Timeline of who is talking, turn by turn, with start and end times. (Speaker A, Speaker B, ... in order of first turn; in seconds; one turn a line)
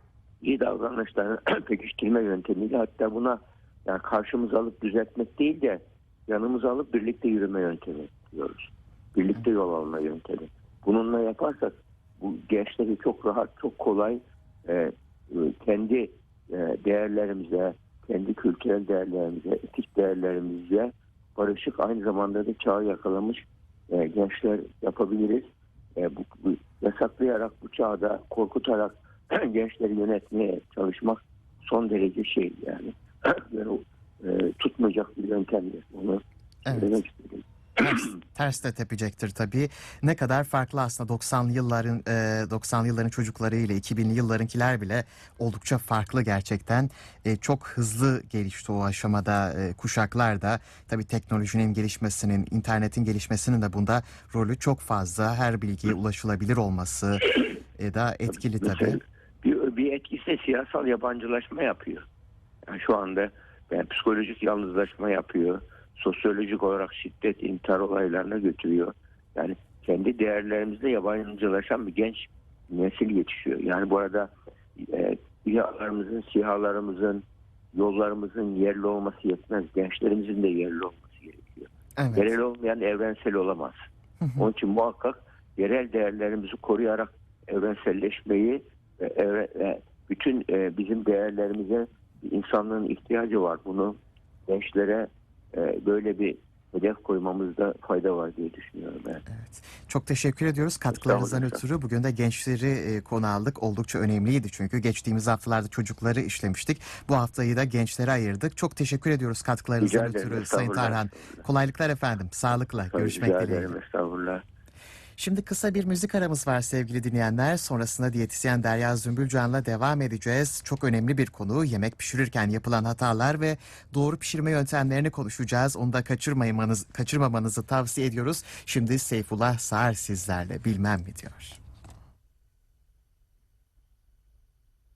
Speaker A: 0.4-37.4
Speaker B: 36.7-37.0
Speaker B: 37.8-59.0
Speaker A: 58.6-62.1
Speaker A: 62.7-77.2
Speaker A: 77.7-83.8
Speaker B: 82.0-82.3
Speaker B: 84.2-84.5
Speaker A: 84.4-94.0
Speaker A: 94.5-99.2
Speaker B: 99.3-113.7
Speaker A: 100.9-101.6
Speaker A: 109.8-111.5
Speaker A: 112.9-114.4
Speaker B: 115.2-131.6